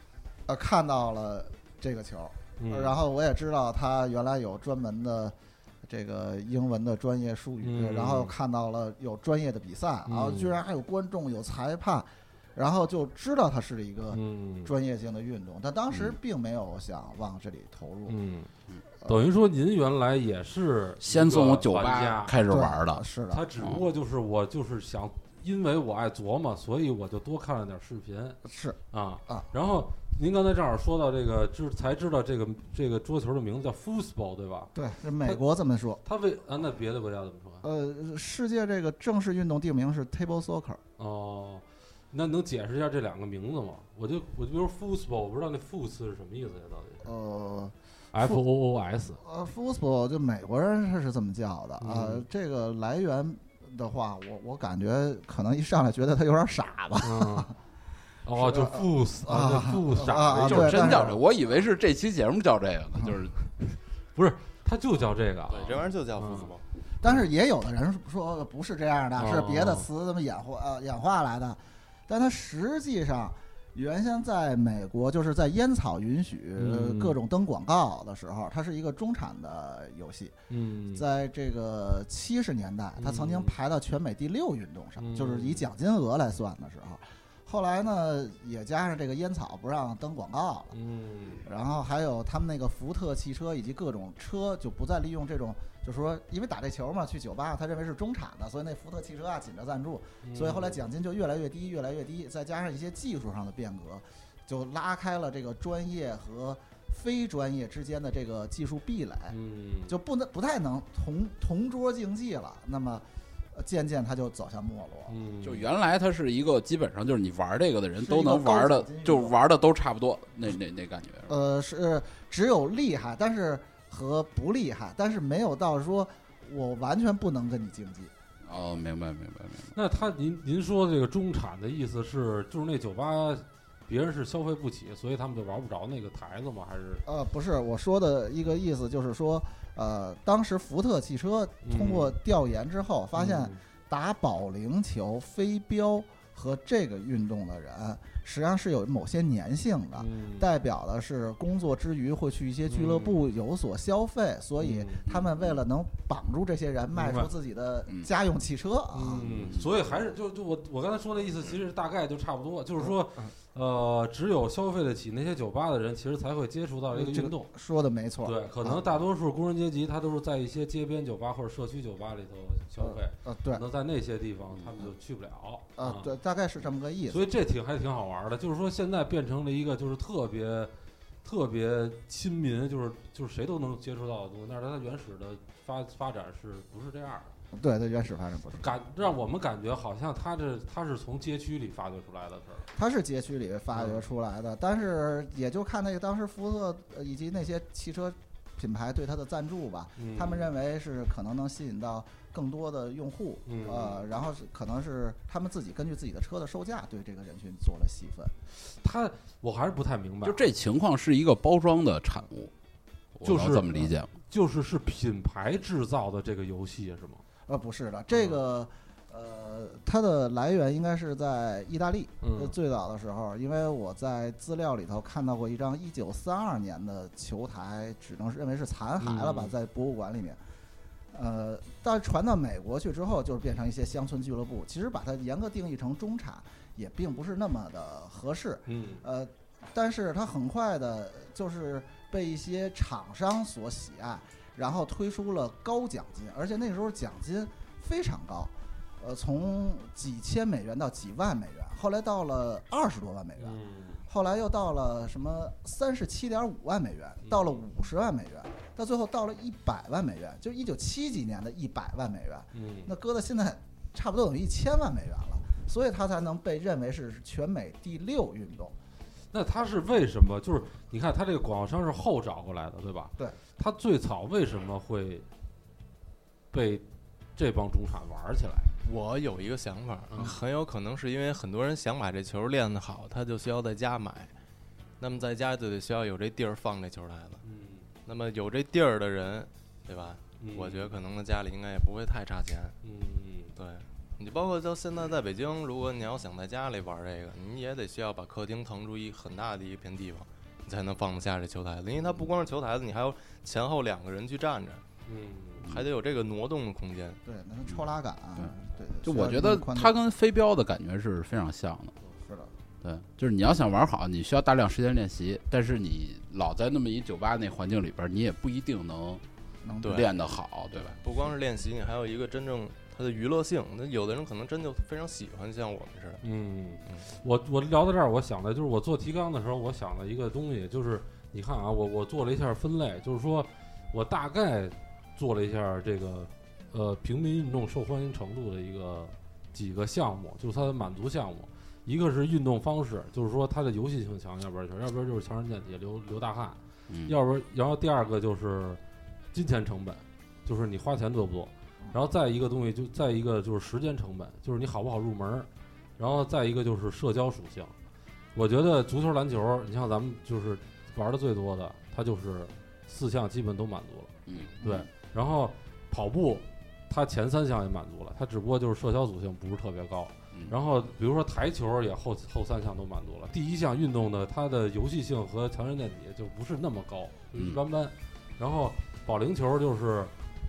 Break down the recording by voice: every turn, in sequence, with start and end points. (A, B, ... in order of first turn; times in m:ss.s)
0:00.4-0:18.2 A
0:02.6-0:03.0 B
0:07.6-0:08.3 B
0:10.0-0:10.6 B
0:14.1-0:14.7 B
0:15.9-0:16.2 C
0:18.1-0:18.5 B
0:19.0-0:22.4 B
0:21.0-0:23.0 C
0:22.4-0:23.4 A
0:23.3-0:28.4 B
0:23.6-0:23.8 C
0:28.4-0:29.5 A
0:28.9-0:34.7 B
0:34.7-0:36.0 A
0:36.0-0:37.6 B
0:37.6-0:40.8 A
0:41.0-0:47.1 B
0:47.0-0:48.4 A
0:48.1-0:49.2 B
0:49.2-0:57.5 A
0:51.8-0:52.2 B
0:57.0-0:57.5 B
0:58.2-1:01.1 B
0:58.4-1:01.2 A
1:00.4-1:03.3 C
1:04.1-1:06.5 B
1:05.5-1:06.6 D
1:07.0-1:20.3 A
1:09.2-1:09.9 B
1:16.6-1:17.2 B
1:20.5-1:21.0 B
1:20.9-1:30.8 A
1:23.0-1:23.6 B
1:25.0-1:25.6 B
1:30.7-1:31.4 B
1:31.4-1:55.2 A
1:40.2-1:40.8 B
1:49.3-1:50.0 B
1:55.1-1:55.7 B
1:55.4-2:01.3 C
1:58.0-1:59.4 A
2:01.3-2:08.1 A
2:08.4-2:09.7 C
2:09.7-2:17.0 B
2:17.0-2:39.3 A
2:21.6-2:22.1 B
2:23.1-2:23.6 B
2:29.9-2:30.5 B
2:32.7-2:33.3 B
2:34.6-2:35.1 B
2:36.9-2:37.3 B
2:38.9-2:47.5 B
2:39.2-2:39.8 C
2:42.8-2:43.3 A
2:46.9-2:49.0 A
2:48.2-2:56.1 B
2:52.8-2:53.6 A
2:55.8-2:57.2 A
2:57.1-3:00.7 B
3:01.2-3:07.3 B
3:07.5-3:09.1 A
3:08.6-3:12.7 B
3:12.7-3:28.3 A
3:13.7-3:14.1 B
3:20.0-3:20.5 B
3:23.4-3:24.0 B
3:28.6-3:30.4 B
3:30.2-3:32.5 C
3:33.1-3:34.1 C
3:33.2-3:37.2 B
3:37.5-3:50.4 A
3:38.1-3:38.4 B
3:42.2-3:42.5 B
3:49.0-3:49.5 B
3:51.1-4:28.8 A
3:58.7-3:59.0 B
4:13.4-4:14.0 B
4:17.2-4:17.6 B
4:22.5-4:22.9 B
4:29.3-4:35.3 B
4:36.5-4:36.8 B
4:37.4-4:38.7 B
4:38.8-4:44.3 D
4:40.1-4:40.4 B
4:45.0-4:47.4 D
4:47.4-4:47.9 B
4:48.0-4:52.8 D
4:50.4-4:50.9 B
4:52.8-4:53.5 B
4:53.6-5:04.8 D
5:05.0-5:05.6 B
5:05.6-5:07.2 D
5:07.2-5:09.9 A
5:09.0-5:12.0 C
5:12.2-5:12.5 A
5:12.8-5:19.2 C
5:19.6-5:20.0 A
5:19.8-5:20.1 D
5:19.8-5:21.0 C
5:20.9-5:26.2 D
5:26.2-5:48.8 B
5:46.9-5:47.1 C
5:49.3-5:57.7 B
5:58.3-6:20.1 B
6:04.2-6:04.9 C
6:17.3-6:17.6 C